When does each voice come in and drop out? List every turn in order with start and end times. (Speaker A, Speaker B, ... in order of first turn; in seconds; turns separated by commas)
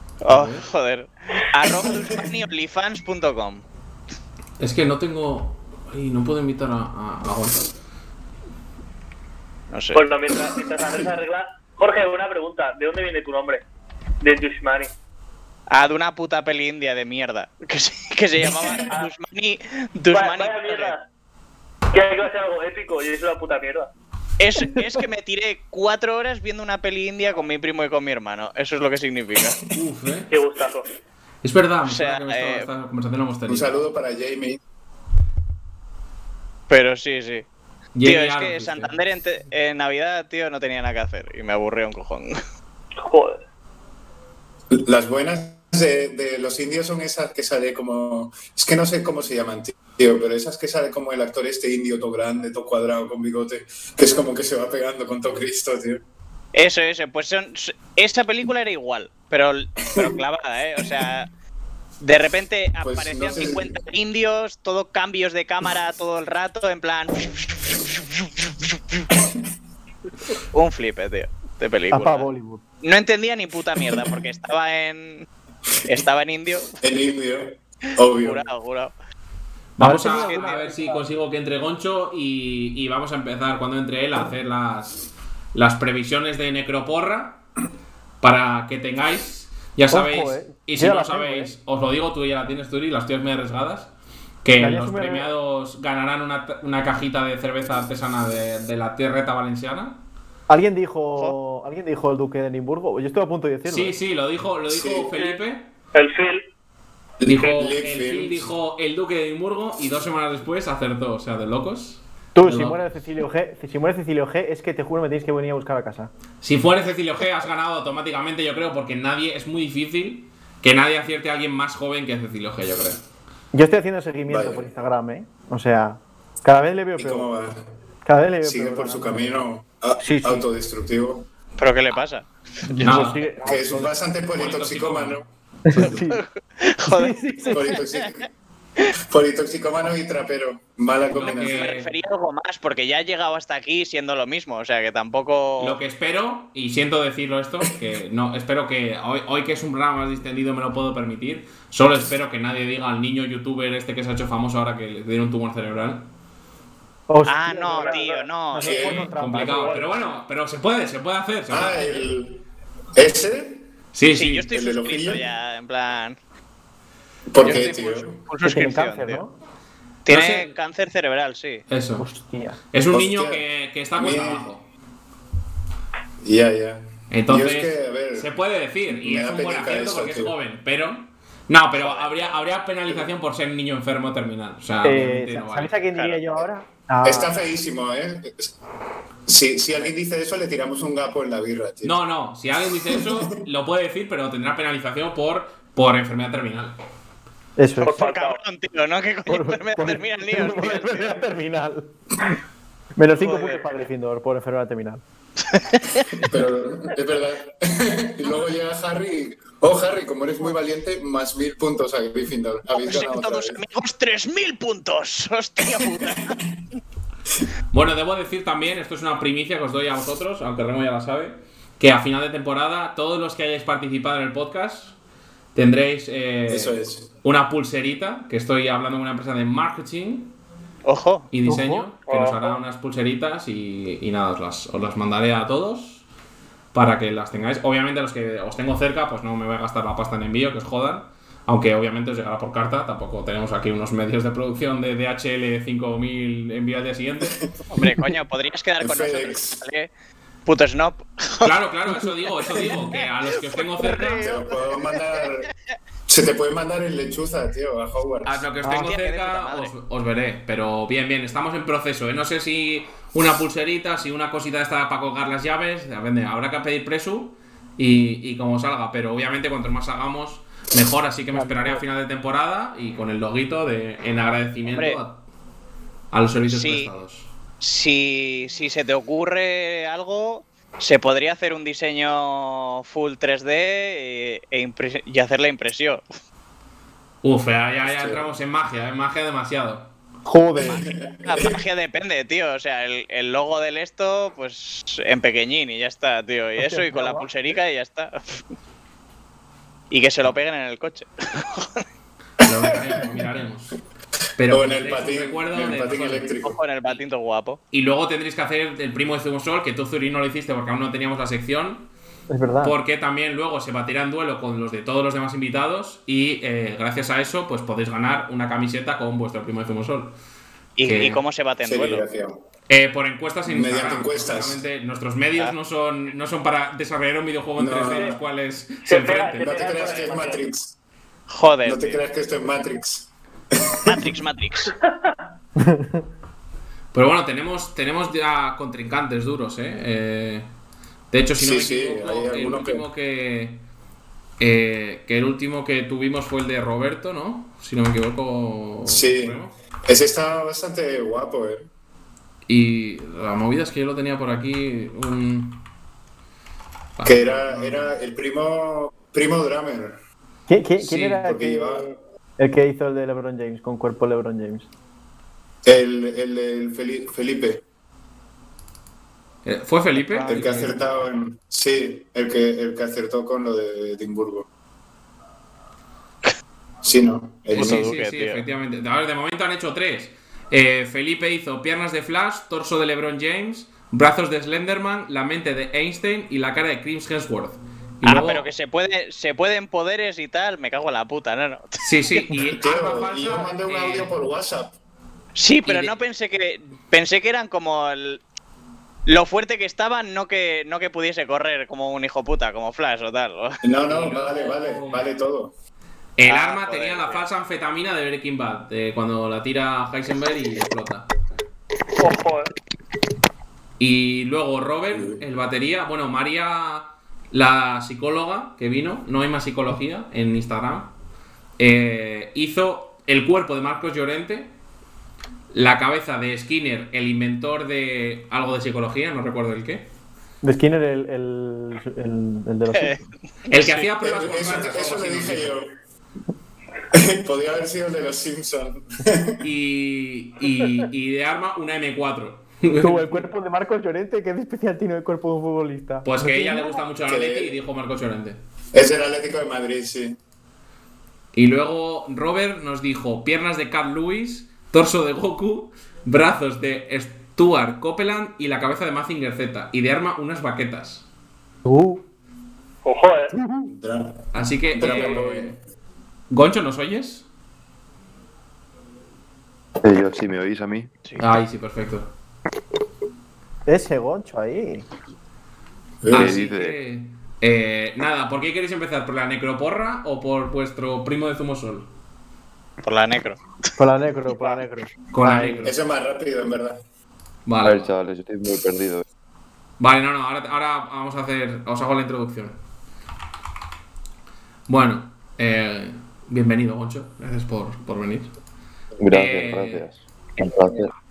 Speaker A: 0.2-3.6, Speaker B: 0.3-0.6, Speaker B: 4.6-7.6, Speaker A: 9.7-10.1, Speaker C: 9.9-13.6, Speaker C: 14.2-14.9, Speaker A: 15.7-20.9, Speaker C: 20.1-21.1, Speaker C: 21.9-23.9, Speaker A: 24.4-29.6, Speaker B: 29.7-30.3, Speaker C: 30.3-30.9, Speaker B: 31.4-33.8, Speaker A: 31.8-32.7, Speaker D: 33.5-34.6, Speaker A: 36.7-37.5, Speaker B: 37.9-38.9, Speaker A: 38.0-42.4, Speaker C: 43.0-43.4, Speaker D: 44.7-56.0, Speaker A: 56.5-61.3, Speaker A: 62.0-69.0, Speaker D: 62.8-63.8, Speaker A: 70.5-72.3, Speaker E: 71.9-72.6, Speaker A: 72.8-75.3, Speaker A: 75.8-76.8, Speaker D: 76.8-78.4, Speaker A: 78.1-78.9, Speaker B: 79.8-85.0, Speaker E: 79.8-81.0, Speaker A: 80.0-80.5, Speaker B: 85.5-87.4, Speaker B: 88.2-93.9, Speaker E: 89.9-91.5, Speaker B: 94.4-100.0, Speaker E: 94.6-95.3, Speaker E: 100.5-104.0, Speaker B: 103.7-105.7, Speaker D: 104.7-105.1, Speaker C: 105.9-106.4, Speaker D: 107.2-108.5, Speaker B: 107.2-112.8, Speaker E: 112.3-116.1, Speaker B: 116.4-123.0, Speaker E: 123.5-127.3, Speaker D: 124.3-124.7, Speaker D: 127.0-127.6, Speaker E: 128.0-129.4, Speaker D: 128.4-131.3, Speaker E: 130.0-130.5, Speaker A: 131.6-132.3, Speaker E: 132.7-133.9, Speaker B: 132.8-133.2, Speaker D: 133.4-135.2, Speaker B: 134.3-135.2, Speaker E: 135.7-136.2, Speaker A: 135.8-138.1, Speaker E: 136.8-137.8, Speaker D: 137.5-138.3, Speaker D: 138.9-141.7, Speaker B: 141.1-141.9, Speaker A: 141.2-145.8, Speaker B: 145.6-156.1, Speaker E: 157.1-159.9, Speaker A: 157.2-158.9, Speaker C: 157.7-158.2, Speaker D: 158.6-159.1, Speaker B: 158.6-162.1, Speaker C: 159.4-159.8, Speaker D: 161.5-162.4, Speaker D: 162.9-163.7, Speaker B: 163.9-164.5, Speaker A: 164.1-166.2, Speaker D: 164.5-165.2, Speaker D: 167.3-168.1, Speaker A: 167.4-169.2, Speaker E: 168.4-169.3, Speaker A: 170.0-171.6, Speaker B: 170.1-170.5, Speaker B: 171.7-172.1, Speaker E: 172.0-172.6, Speaker B: 172.7-174.7, Speaker D: 172.9-173.4, Speaker D: 173.9-174.5, Speaker D: 176.2-178.3, Speaker B: 177.1-185.7, Speaker D: 178.9-180.3, Speaker E: 184.8-187.3, Speaker A: 185.9-186.2, Speaker D: 187.0-188.5, Speaker D: 189.3-192.0, Speaker B: 191.8-196.8, Speaker D: 192.9-193.3, Speaker E: 197.6-198.1, Speaker C: 197.8-198.4, Speaker A: 197.9-201.2, Speaker E: 199.3-202.4, Speaker E: 202.9-205.0, Speaker A: 203.2-203.6, Speaker A: 205.4-206.1, Speaker D: 206.1-213.6, Speaker A: 212.7-216.4, Speaker D: 216.0-216.3, Speaker B: 217.7-224.9, Speaker B: 225.5-230.3, Speaker D: 226.5-227.1, Speaker A: 230.8-231.3, Speaker B: 231.3-236.0, Speaker E: 231.4-231.9, Speaker C: 232.1-232.6, Speaker B: 236.7-247.4, Speaker A: 247.7-249.9, Speaker D: 248.8-249.6, Speaker A: 250.4-251.5, Speaker B: 251.4-254.3, Speaker A: 252.4-255.3, Speaker D: 254.1-255.5, Speaker D: 256.1-258.4, Speaker B: 258.2-275.2, Speaker A: 258.6-259.7, Speaker E: 271.3-271.8, Speaker A: 274.7-275.0, Speaker B: 276.1-277.3, Speaker A: 276.5-276.9, Speaker A: 277.6-286.0, Speaker B: 287.2-289.9, Speaker D: 287.8-288.2, Speaker E: 290.2-290.9, Speaker A: 290.6-298.4, Speaker D: 290.7-291.5, Speaker E: 296.6-297.3, Speaker A: 299.9-301.8, Speaker B: 302.4-303.8, Speaker D: 302.5-303.0, Speaker B: 304.4-306.3, Speaker D: 304.5-306.6, Speaker A: 306.4-307.6, Speaker B: 307.7-311.9, Speaker E: 312.3-312.8, Speaker B: 312.6-320.1, Speaker A: 320.8-322.0, Speaker B: 320.8-321.2, Speaker D: 321.6-322.4, Speaker B: 322.7-330.1, Speaker D: 323.4-324.6, Speaker D: 327.6-328.2, Speaker C: 327.9-328.1, Speaker C: 328.8-330.4, Speaker D: 329.4-330.7, Speaker A: 331.3-332.0, Speaker D: 331.6-334.0, Speaker A: 333.8-334.7, Speaker E: 335.6-336.0, Speaker B: 336.9-340.5, Speaker B: 341.1-343.6, Speaker D: 341.4-342.8, Speaker B: 344.4-349.5, Speaker D: 348.9-351.7, Speaker B: 352.5-355.7, Speaker B: 357.0-358.0, Speaker D: 357.0-360.0, Speaker E: 360.5-364.7, Speaker B: 360.8-361.2, Speaker D: 361.2-361.9, Speaker D: 365.6-367.6, Speaker B: 369.4-370.8, Speaker E: 369.9-370.8, Speaker D: 370.2-374.5, Speaker D: 376.8-377.9, Speaker A: 377.5-378.4, Speaker B: 377.5-388.5, Speaker A: 388.0-392.2, Speaker B: 391.8-394.1, Speaker D: 392.4-394.7, Speaker A: 395.3-398.2, Speaker B: 395.6-395.9, Speaker A: 399.1-403.6, Speaker D: 403.6-405.5, Speaker B: 403.9-405.1, Speaker B: 406.2-411.1, Speaker A: 406.2-407.2, Speaker C: 412.0-412.5, Speaker B: 413.8-420.9, Speaker D: 414.9-415.2, Speaker B: 421.6-424.5, Speaker B: 425.5-429.9, Speaker E: 430.4-433.1, Speaker A: 432.7-433.0, Speaker B: 433.5-435.6, Speaker D: 434.0-435.7, Speaker D: 436.9-439.4, Speaker B: 439.4-443.2, Speaker E: 442.8-446.8, Speaker B: 446.0-448.4, Speaker D: 447.1-447.5, Speaker D: 448.7-450.2, Speaker B: 451.3-461.1, Speaker E: 461.6-462.0, Speaker C: 462.8-463.3, Speaker E: 463.3-463.7, Speaker D: 463.6-465.6, Speaker B: 464.3-465.6, Speaker B: 466.3-467.2, Speaker F: 469.8-470.9, Speaker B: 471.2-472.1, Speaker E: 473.6-474.9, Speaker D: 476.0-476.4, Speaker B: 476.1-481.9, Speaker F: 476.1-476.8, Speaker A: 482.8-483.4, Speaker E: 483.8-485.7, Speaker B: 485.1-485.7, Speaker D: 485.6-486.8, Speaker B: 487.4-487.9, Speaker F: 487.6-489.0, Speaker B: 489.8-492.6, Speaker B: 494.7-498.3, Speaker F: 499.0-500.9, Speaker B: 499.1-499.9